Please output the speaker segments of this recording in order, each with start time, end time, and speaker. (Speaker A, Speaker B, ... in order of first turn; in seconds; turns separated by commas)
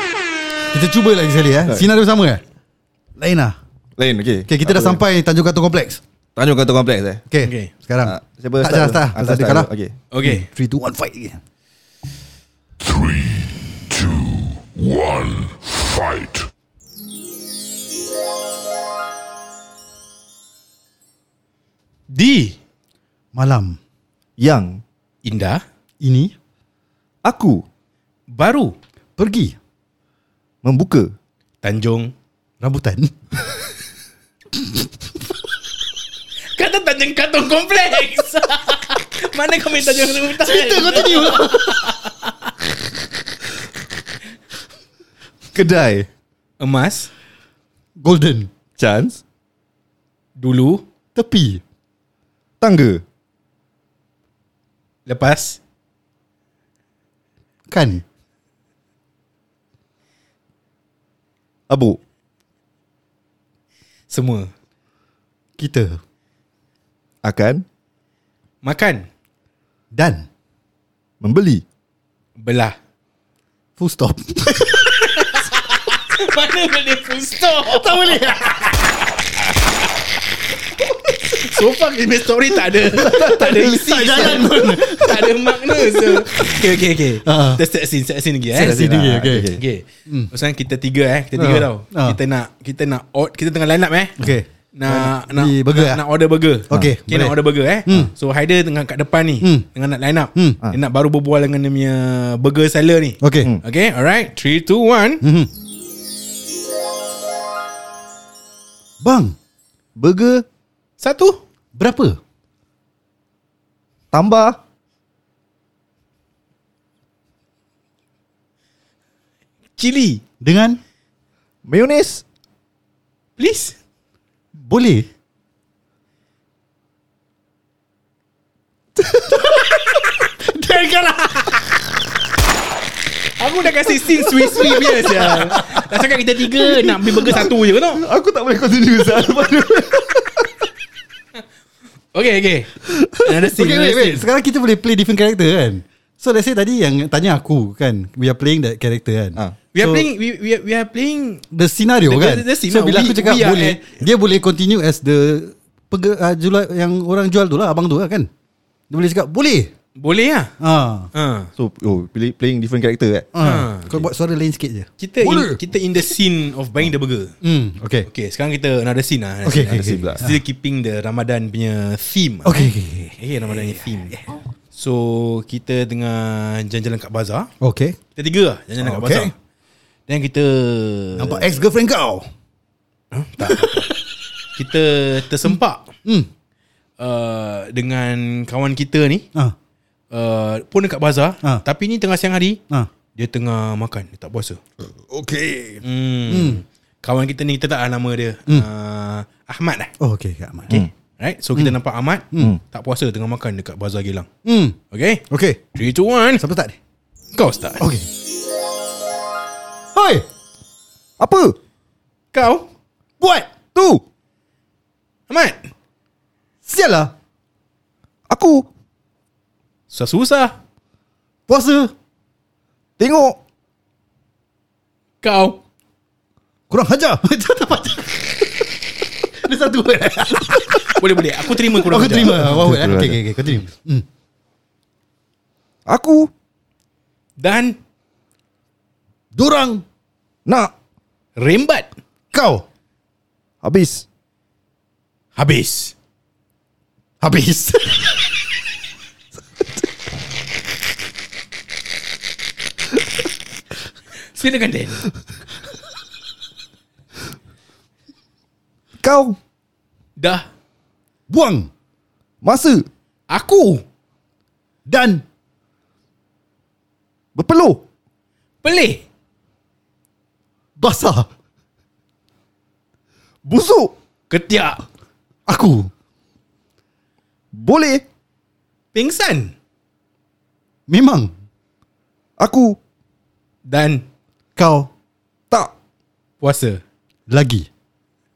Speaker A: 0.7-2.4, Speaker A: 3.1-3.5, Speaker B: 4.0-5.0, Speaker A: 4.5-6.0, Speaker B: 6.3-7.2, Speaker A: 7.3-9.7, Speaker C: 7.4-7.7, Speaker B: 8.0-9.9, Speaker C: 10.1-10.5, Speaker A: 10.2-11.4, Speaker C: 22.1-22.6, Speaker A: 23.3-23.8, Speaker B: 24.4-24.8, Speaker C: 25.2-25.6, Speaker A: 26.0-26.3, Speaker B: 27.2-27.6, Speaker C: 28.3-28.8, Speaker A: 29.2-29.6, Speaker B: 30.6-31.1, Speaker C: 31.6-32.1, Speaker A: 32.6-33.6, Speaker A: 34.5-34.9, Speaker C: 36.5-42.3, Speaker A: 40.4-42.0, Speaker B: 45.5-46.1, Speaker C: 46.6-47.1, Speaker A: 48.0-48.5, Speaker B: 48.8-49.2, Speaker C: 50.4-50.8, Speaker A: 51.1-51.6, Speaker B: 52.6-53.0, Speaker C: 55.0-55.6, Speaker A: 57.7-58.0, Speaker B: 61.7-62.0, Speaker C: 64.1-64.5, Speaker A: 65.6-66.0, Speaker B: 67.2-67.6, Speaker C: 68.6-69.1, Speaker A: 69.9-70.3, Speaker B: 71.2-71.6, Speaker C: 72.4-72.8, Speaker A: 73.8-75.4, Speaker C: 75.2-78.2, Speaker A: 77.6-79.0, Speaker C: 81.4-88.8, Speaker B: 83.0-83.7, Speaker A: 83.1-86.6, Speaker A: 87.2-87.6, Speaker B: 88.5-89.6, Speaker A: 88.6-89.5, Speaker C: 89.5-94.2, Speaker A: 91.3-92.2, Speaker A: 94.2-96.0, Speaker C: 94.7-105.2, Speaker A: 96.7-98.1, Speaker A: 103.2-103.5, Speaker A: 105.2-105.5, Speaker A: 109.0-109.3, Speaker B: 110.0-110.4, Speaker C: 111.0-111.4, Speaker A: 111.7-112.2, Speaker B: 114.1-114.6, Speaker C: 119.8-120.2, Speaker A: 120.4-120.8, Speaker B: 121.7-122.2, Speaker C: 123.4-123.7, Speaker A: 124.6-125.1, Speaker A: 129.0-131.8, Speaker C: 133.4-138.0, Speaker A: 134.0-135.9, Speaker A: 136.6-137.5, Speaker B: 138.0-140.4, Speaker C: 142.1-144.3, Speaker A: 143.5-150.1, Speaker C: 149.7-151.4, Speaker A: 151.5-158.3, Speaker C: 152.0-154.0, Speaker A: 158.9-159.7, Speaker C: 160.0-160.5, Speaker A: 160.6-161.1, Speaker C: 161.1-161.5, Speaker B: 161.6-163.3, Speaker A: 163.3-165.6, Speaker C: 163.4-164.1, Speaker C: 165.0-167.3, Speaker A: 167.4-168.1, Speaker C: 168.1-174.2, Speaker A: 169.4-170.4, Speaker B: 169.7-170.2, Speaker A: 172.4-174.3, Speaker C: 174.7-177.5, Speaker A: 177.6-178.0, Speaker C: 178.2-179.3, Speaker A: 178.8-179.3, Speaker C: 180.1-181.5, Speaker A: 181.1-182.3, Speaker C: 183.1-183.9, Speaker A: 183.5-183.7, Speaker C: 184.5-185.9, Speaker A: 186.0-186.3, Speaker C: 187.0-189.3, Speaker C: 190.1-192.6, Speaker C: 193.1-194.6, Speaker A: 195.1-196.6, Speaker C: 195.8-199.9, Speaker A: 200.0-200.8, Speaker C: 200.7-204.3, Speaker A: 204.4-204.8, Speaker C: 204.9-205.2, Speaker A: 205.3-205.6, Speaker C: 205.7-206.4, Speaker A: 206.4-206.8, Speaker C: 207.3-207.8, Speaker A: 207.8-208.1, Speaker A: 209.9-210.2, Speaker B: 211.2-211.6, Speaker C: 212.3-212.7, Speaker A: 213.2-213.5, Speaker B: 213.7-214.0, Speaker C: 215.3-215.7, Speaker A: 216.7-217.1, Speaker B: 218.3-218.7, Speaker C: 219.9-220.6, Speaker A: 221.5-221.9, Speaker B: 223.0-223.4, Speaker C: 225.2-225.6, Speaker A: 226.7-234.1, Speaker C: 231.0-232.5, Speaker B: 232.3-233.2, Speaker B: 235.8-236.3, Speaker C: 237.4-237.8, Speaker A: 239.3-239.8, Speaker B: 240.4-240.7, Speaker C: 241.4-241.9, Speaker A: 242.3-242.6, Speaker B: 243.6-244.0, Speaker C: 245.3-245.9, Speaker A: 247.2-248.4, Speaker C: 254.3-255.1, Speaker B: 259.0-259.4, Speaker C: 260.2-260.5, Speaker A: 261.3-261.7, Speaker B: 262.4-262.8, Speaker C: 263.3-263.8, Speaker A: 264.9-265.2, Speaker B: 267.3-267.8, Speaker C: 268.6-269.0, Speaker A: 270.8-271.3, Speaker B: 273.4-273.9, Speaker C: 274.3-274.8, Speaker A: 275.5-275.9, Speaker B: 277.5-278.0, Speaker C: 278.9-279.5, Speaker A: 280.9-281.3, Speaker B: 282.4-282.8, Speaker C: 283.6-284.0, Speaker A: 284.6-284.9, Speaker C: 286.4-286.8, Speaker A: 287.3-287.7